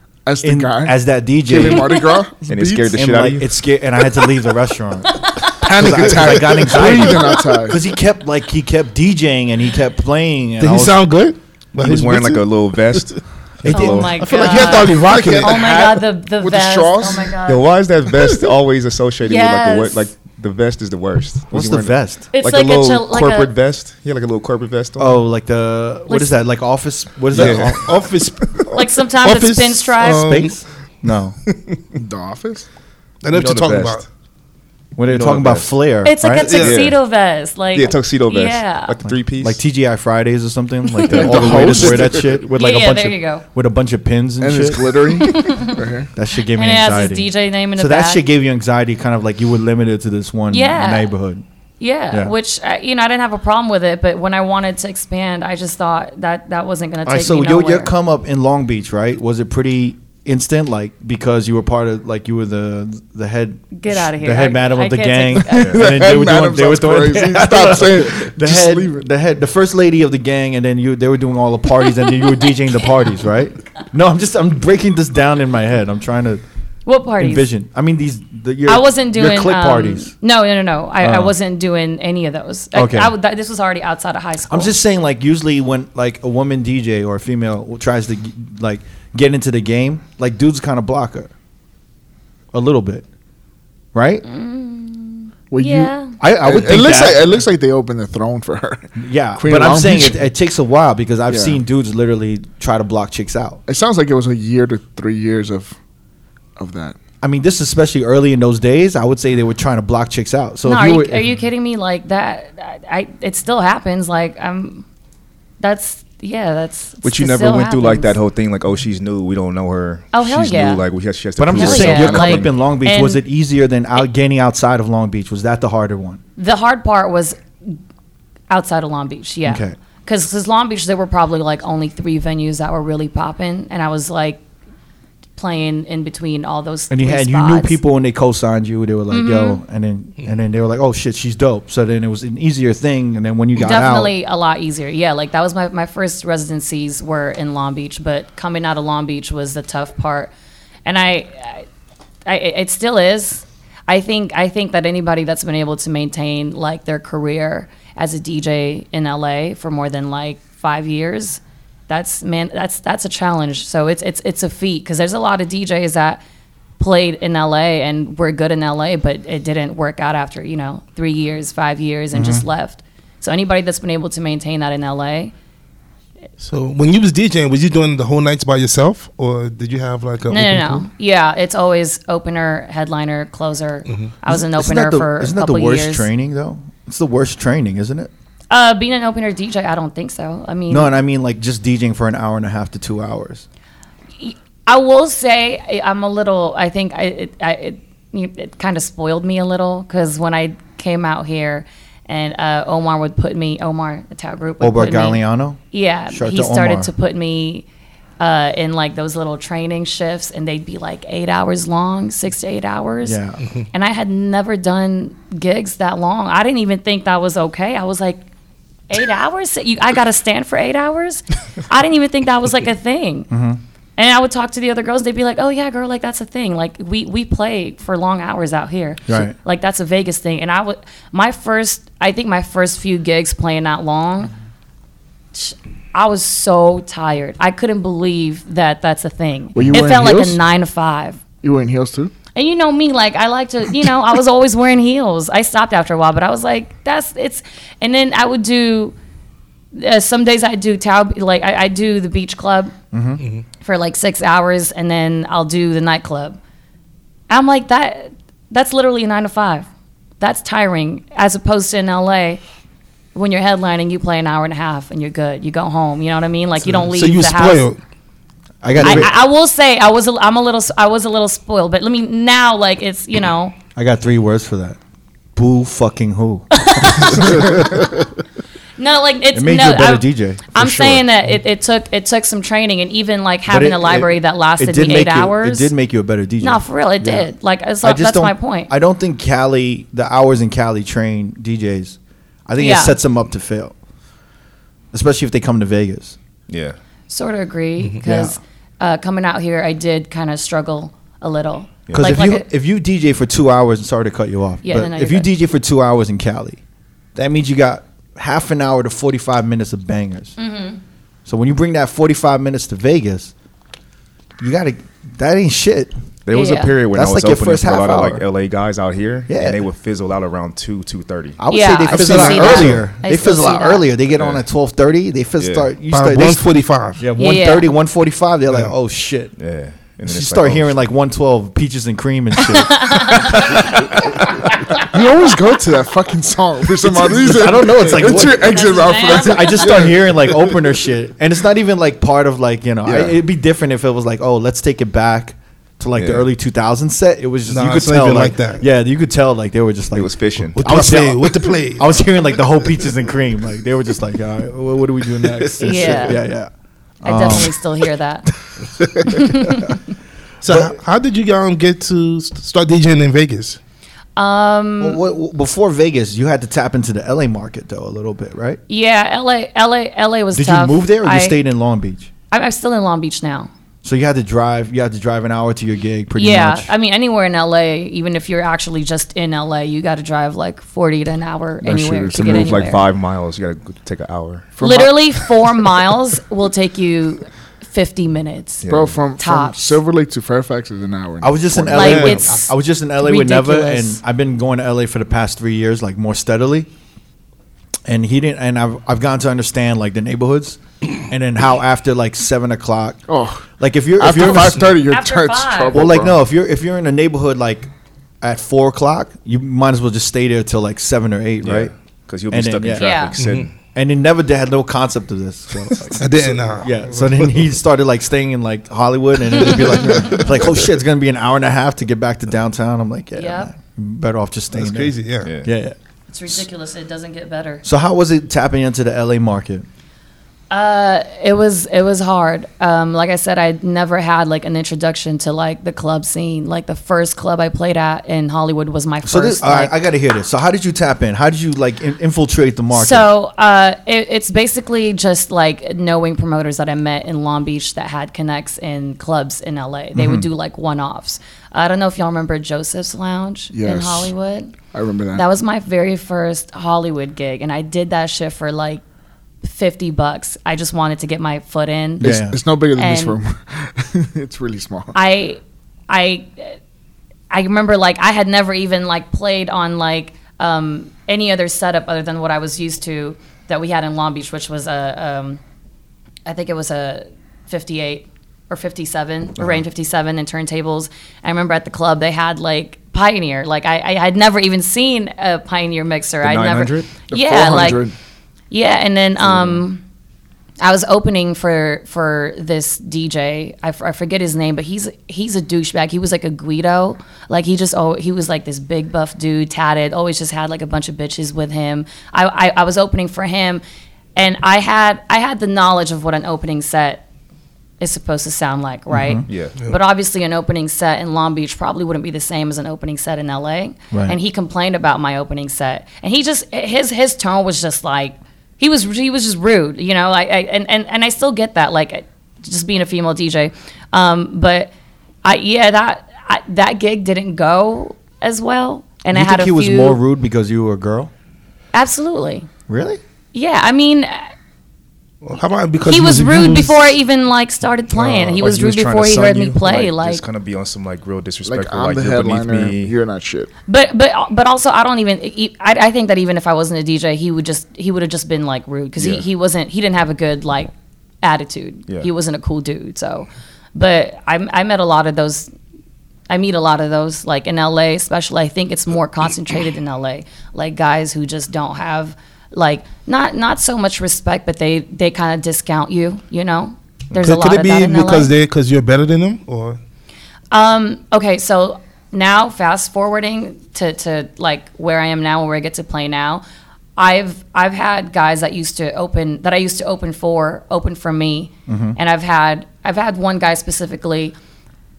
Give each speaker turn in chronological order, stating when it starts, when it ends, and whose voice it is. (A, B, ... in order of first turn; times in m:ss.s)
0:00.3-0:03.0 A
0:00.4-0:02.0 B
0:02.5-0:03.5 C
0:02.9-0:11.1 B
0:05.6-0:07.8 A
0:10.6-0:13.2 D
0:11.8-0:14.4 C
0:13.6-0:14.1 B
0:13.7-0:17.7 E
0:13.8-0:15.8 D
0:14.5-0:17.4 A
0:17.5-0:25.2 C
0:19.2-0:20.1 E
0:21.5-0:22.3 B
0:22.3-0:23.5 E
0:25.0-0:28.0 B
0:26.1-0:26.3 E
0:27.3-0:27.9 C
0:27.4-0:28.6 D
0:28.7-0:30.3 E
0:29.2-0:30.6 D
0:30.1-0:31.4 B
0:32.0-0:32.7 A
0:33.2-0:34.0 D
0:33.3-0:34.0 C
0:35.0-0:36.7 B
0:35.1-0:35.7 C
0:36.0-0:39.0 E
0:36.5-0:37.0 C
0:37.7-0:39.6 C
0:39.0-0:45.3 B
0:41.1-0:42.2 C
0:41.1-0:42.4 A
0:42.5-0:43.4 E
0:44.4-0:46.1 A
0:45.2-0:45.8 E
0:46.1-0:51.4 B
0:46.5-0:48.2 E
0:50.5-0:51.1 E
0:51.8-0:57.9 E
0:57.1-1:16.4 B
1:03.8-1:05.8 E
1:05.6-1:09.0 A
1:16.9-1:17.5 E
1:17.2-1:20.1 B
1:18.7-1:24.8 E
1:21.0-1:21.3 B
1:22.7-1:23.1 B
1:24.5-1:31.3 B
1:32.5-1:33.1 B
1:33.9-1:34.2 B
1:34.2-1:36.2 E
1:35.5-1:40.2 A
1:36.2-1:37.4 B
1:39.0-1:43.6 B
1:41.3-1:41.6 A
1:43.7-1:45.8 A
1:46.6-1:47.0 A
1:47.2-1:51.3 B
1:50.6-1:54.8 E
1:55.6-1:58.2 E
1:57.0-2:02.5 C
2:00.1-2:00.8 E
2:01.4-2:06.2 B
2:01.5-2:03.2 E
2:06.4-2:07.8 E
2:08.5-2:14.4 E
2:09.4-2:09.8 B
2:15.4-2:17.8 E
2:16.9-2:24.1 B
2:19.1-2:19.6 E
2:23.6-2:30.3 E
2:30.9-2:31.7 E
2:32.3-2:46.2 E
2:46.8-2:55.3 E
2:52.1-2:52.4 B
2:56.4-3:00.9 D
3:00.3-3:06.1 E
3:04.3-3:08.1 B
3:08.5-3:10.9 E
3:10.7-3:13.4 B
3:14.2-3:27.7 E
3:24.6-3:26.9 B
3:28.2-3:33.2 E
3:33.0-3:33.4 B
3:33.7-3:38.2 E
3:38.9-3:43.3 E
3:43.3-3:43.6 B
3:44.0-3:54.3 E
3:49.1-3:49.4 B
3:55.3-4:01.2 E
3:59.6-4:00.4 A
4:01.4-4:02.1 A
4:02.3-4:08.9 E
4:09.7-4:12.7 E
4:12.9-4:13.2 B
4:13.6-4:16.4 E
4:17.3-4:19.7 E
4:20.2-4:22.4 E
4:23.1-4:27.7 E
4:26.8-4:27.8 D
4:28.6-4:29.1 B
4:28.8-4:33.6 E
4:33.8-4:34.8 B
4:35.4-4:38.0 B
4:36.5-4:37.8 E
4:38.8-4:45.7 E
4:39.3-4:40.6 B
4:40.6-4:41.0 C
4:43.5-4:47.3 B
4:46.4-4:48.7 E
4:47.8-4:53.8 B
4:52.6-4:53.0 E
4:54.9-4:56.2 B
4:56.5-4:56.8 C
4:57.1-5:02.5 E
4:58.0-4:58.4 B
5:01.9-5:02.2 C
5:01.9-5:06.6 B
5:04.6-5:05.3 E
5:07.2-5:10.4 B
5:10.4-5:10.8 E
5:11.3-5:13.3 B
5:14.4-5:15.9 B
5:16.3-5:21.4 C
5:16.3-5:16.7 E
5:16.9-5:18.2 B
5:19.3-5:19.6 B
5:21.4-5:26.4 B
5:21.5-5:23.9 E
5:21.9-5:22.8 D
5:24.2-5:24.4 C
5:25.4-5:25.7 C
5:25.9-5:27.0 D
5:27.0-5:29.4 B
5:27.2-5:27.7 E
5:29.4-5:30.8 C
5:30.0-5:34.0 B
5:32.4-5:33.7 E
5:34.8-5:40.0 A
5:36.8-5:56.5 B
5:38.2-5:39.8 E
5:42.8-5:43.2 A
5:46.0-5:46.3 C
5:47.5-5:48.6 D
5:49.9-5:50.6 C
5:50.6-5:52.0 D
5:55.6-5:56.2 E
5:57.0-5:58.3 E
5:57.0-5:57.6 B
5:59.0-5:59.7 B
5:59.0-5:59.8 E
6:00.4-6:03.6 D
6:00.5-6:00.8 B
6:04.2-6:05.0 E
6:04.8-6:08.6 B
6:08.7-6:11.4 E
6:10.3-6:12.1 B
6:12.3-6:13.5 E
6:13.8-6:16.7 B
6:16.2-6:22.8 E
6:21.6-6:22.5 A
6:22.1-6:24.5 C
6:24.6-6:25.3 A
6:24.6-6:28.6 E
6:28.6-6:29.0 C
6:28.7-6:32.1 A
6:29.2-6:29.8 E
6:31.2-6:36.7 B
6:31.7-6:34.0 E
6:31.8-6:32.2 D
6:37.9-6:43.0 B
6:43.1-6:43.4 A
6:43.6-6:44.8 B
6:44.0-6:46.2 A
6:44.9-6:45.8 E
6:45.7-6:47.7 B
6:48.2-6:51.7 B
6:51.4-6:53.5 C
6:52.3-6:52.9 B
6:52.8-6:53.1 E
6:53.2-6:53.5 D
6:53.7-7:05.8 B
6:56.0-6:57.3 D
7:03.2-7:03.5 E
7:04.5-7:05.3 D
7:06.1-7:07.6 E
7:07.6-7:09.7 B
7:10.5-7:19.8 E
7:19.0-7:23.1 B
7:22.7-7:34.5 E
7:30.0-7:30.3 B
7:33.5-7:34.1 A
7:34.7-7:35.2 A
7:35.1-7:38.8 E
7:39.4-7:42.2 E
7:42.0-7:42.4 B
7:42.0-7:45.0 A
7:42.8-7:43.2 E
7:44.9-7:46.6 E
7:47.3-7:55.4 E
7:56.3-8:07.8 E
8:06.2-8:06.9 C
8:07.1-8:07.9 A
8:08.5-8:09.8 E
8:09.3-8:09.6 C
8:10.6-8:23.6 E
8:24.2-8:27.0 E
8:27.8-8:44.7 E
8:28.9-8:29.2 B
8:29.3-8:29.6 C
8:33.9-8:34.2 B
8:45.2-8:50.0 E
8:49.1-8:51.1 B
8:51.7-8:52.5 E
8:52.7-8:53.0 B
8:53.3-8:54.3 E
8:55.2-8:56.8 D
8:55.8-9:00.2 E
8:58.4-9:03.0 C
9:01.5-9:03.5 A
9:03.7-9:15.5 E
9:09.0-9:09.2 C
9:16.3-9:28.3 E
9:27.2-9:29.8 D
9:30.5-9:36.4 E
9:37.0-9:44.4 E
9:41.7-9:42.0 B